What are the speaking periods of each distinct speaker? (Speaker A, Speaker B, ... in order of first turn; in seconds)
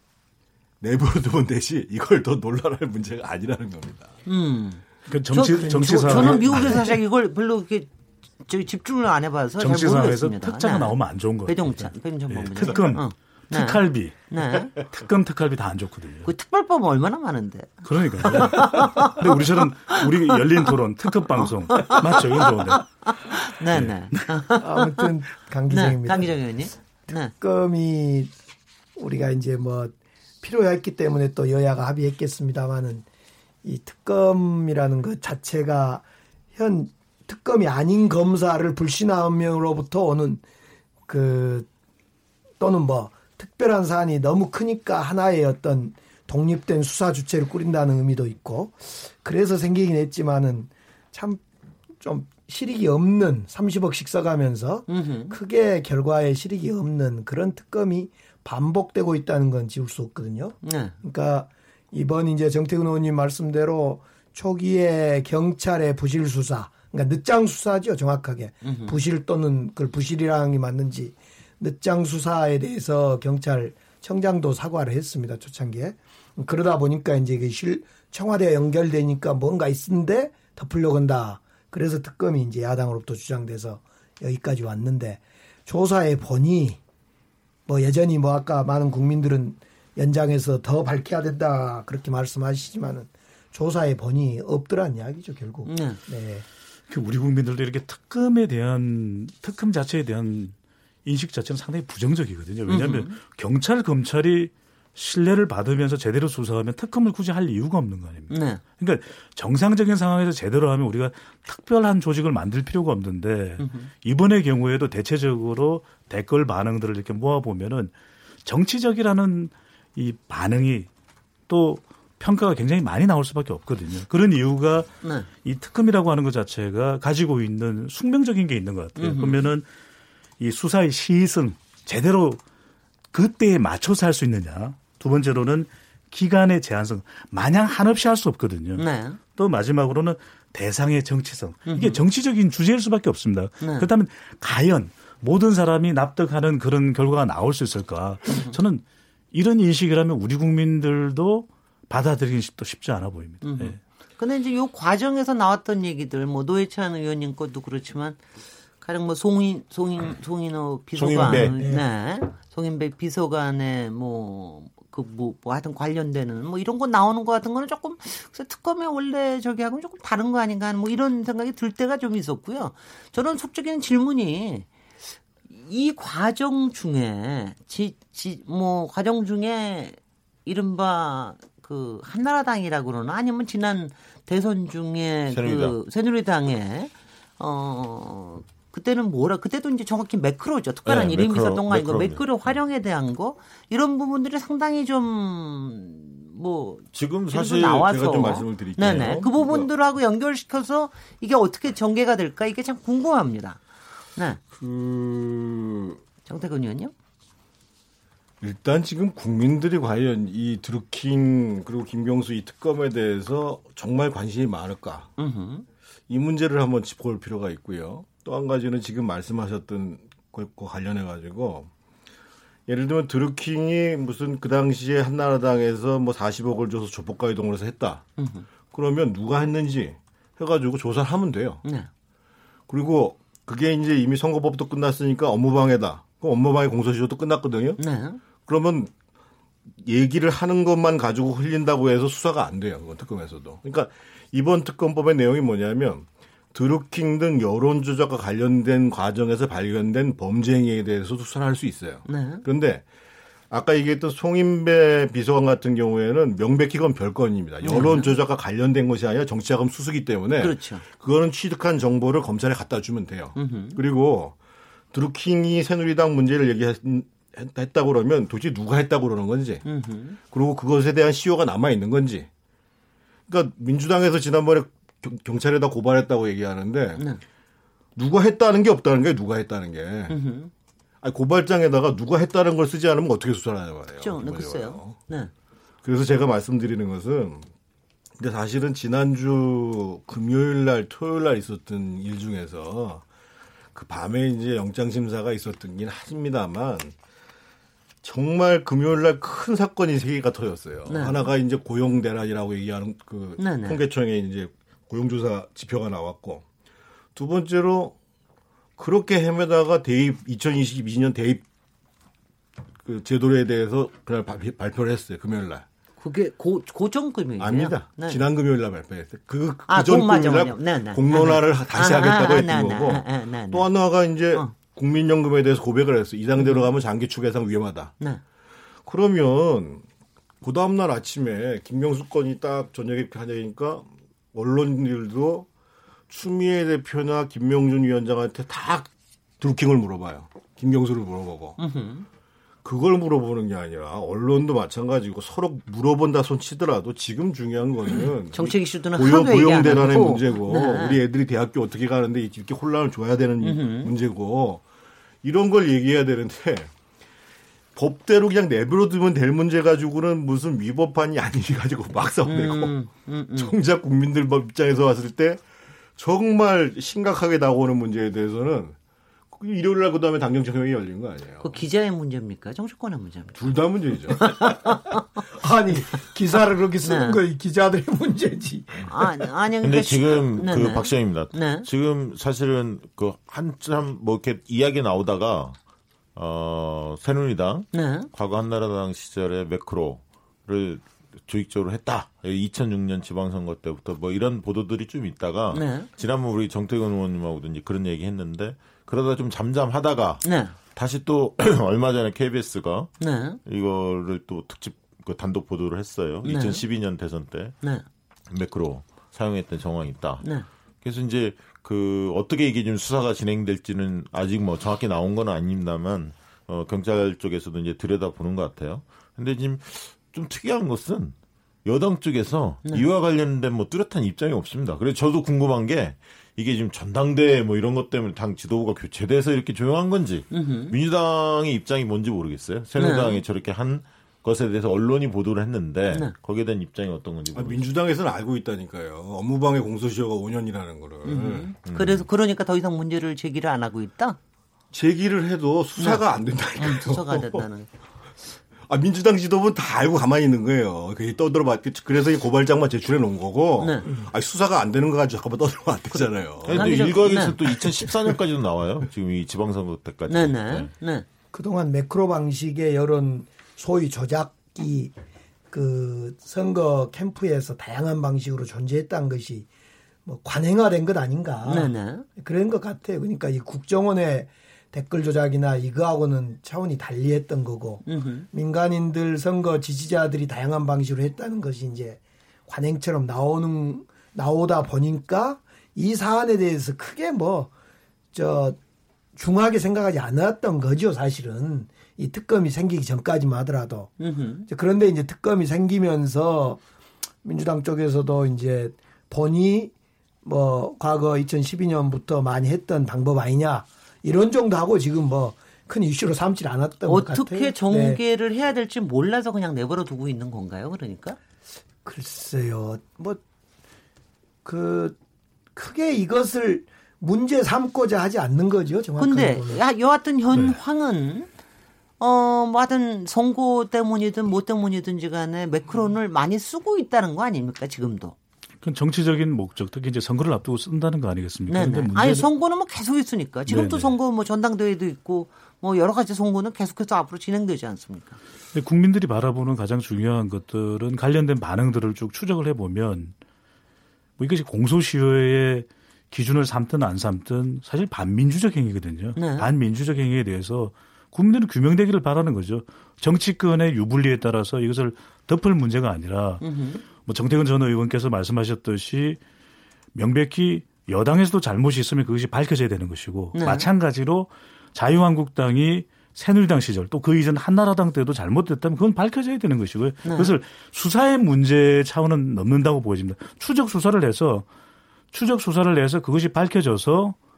Speaker A: 0.8-4.1, 6.0-6.9, 197.8-199.7, 204.5-206.0, 208.4-215.1, 216.1-221.7, 222.7-228.0, 228.7-231.6, 232.7-237.8, 238.4-238.9, 239.8-252.8, 253.5-264.3, 264.9-269.6, 270.3-272.3, 273.3-277.1, 277.9-280.2, 281.0-285.0, 285.8-287.5, 288.2-293.0, 293.7-296.9, 298.0-306.4, 307.1-307.9, 308.8-311.4, 312.8-315.6, 317.4-327.9, 328.8-329.8, 330.4-335.5, 336.1-341.6, 342.6-354.6, 355.2-356.7, 357.8-362.8, 363.3-365.4, 366.0-368.8, 369.3-371.5, 373.3-374.6, 437.3-441.5, 444.7-447.4, 448.7-457.1, 457.8-458.1
Speaker B: 4.2-7.9, 8.4-14.7, 16.2-20.6, 21.4-25.1, 25.7-27.3, 54.9-55.4, 60.6-60.9, 68.6-69.0, 95.7-96.0, 102.7-103.2, 108.3-108.6, 113.6-113.9, 129.0-129.4, 138.8-139.2, 141.7-142.0, 143.6-143.9, 148.3-148.5, 153.4-158.2, 158.8-203.6, 204.2-204.4, 206.2-206.9, 215.2-215.7, 228.2-228.5, 231.6-231.9, 237.8-238.2, 252.1-252.4, 257.6-258.2, 260.4-260.9, 263.4-263.8, 269.6-270.2, 280.1-280.5, 284.0-285.3, 300.9-301.2, 303.4-303.8, 316.0-318.2, 319.7-323.7, 326.4-326.6, 341.6-342.1, 348.3-351.0, 353.4-353.9, 362.2-363.5, 371.4-373.5, 374.1-375.0, 376.8-377.2, 378.9-381.7, 387.7-388.1, 395.5-395.9, 400.2-400.6, 403.0-403.4, 406.2-406.6, 430.3-430.7, 432.8-433.2, 441.0-444.2, 446.6-447.7, 453.6-453.9, 455.9-457.4, 460.1-461.0, 471.5-472.1, 477.9-478.3, 494.0-494.5, 506.9-511.2, 519.0-521.3, 522.0-528.1, 531.5-538.2, 549.1-549.5, 556.4-556.8, 563.3-563.7, 570.0-570.3
Speaker C: 5.1-6.8, 9.6-16.3, 17.8-22.9, 23.7-24.3, 96.9-117.9, 118.4-120.9, 121.5-124.9, 125.4-129.7, 130.4-132.4, 133.1-153.8, 528.6-532.2, 533.5-533.9, 538.5-543.1, 544.2-559.2, 559.9-574.5, 575.1-577.1
Speaker D: 5.8-6.2, 24.6-26.4, 27.3-28.3, 28.9-33.0, 33.6-40.4, 41.1-41.7, 42.6-51.4, 52.0-86.8, 87.7-96.4, 161.6-161.8, 375.4-379.1, 461.3-464.9, 465.5-469.5, 470.1-487.5, 488.1-488.6, 489.1-493.9, 494.5-496.6, 497.2-508.0, 511.8-513.2, 514.4-515.0, 515.5-519.6
Speaker E: 160.9-161.6, 185.3-185.8, 190.8-192.5, 196.9-197.9, 379.6-385.6, 386.1-402.9, 403.4-407.5, 408.3-410.3, 410.8-437.6, 441.6-442.1, 456.4-460.7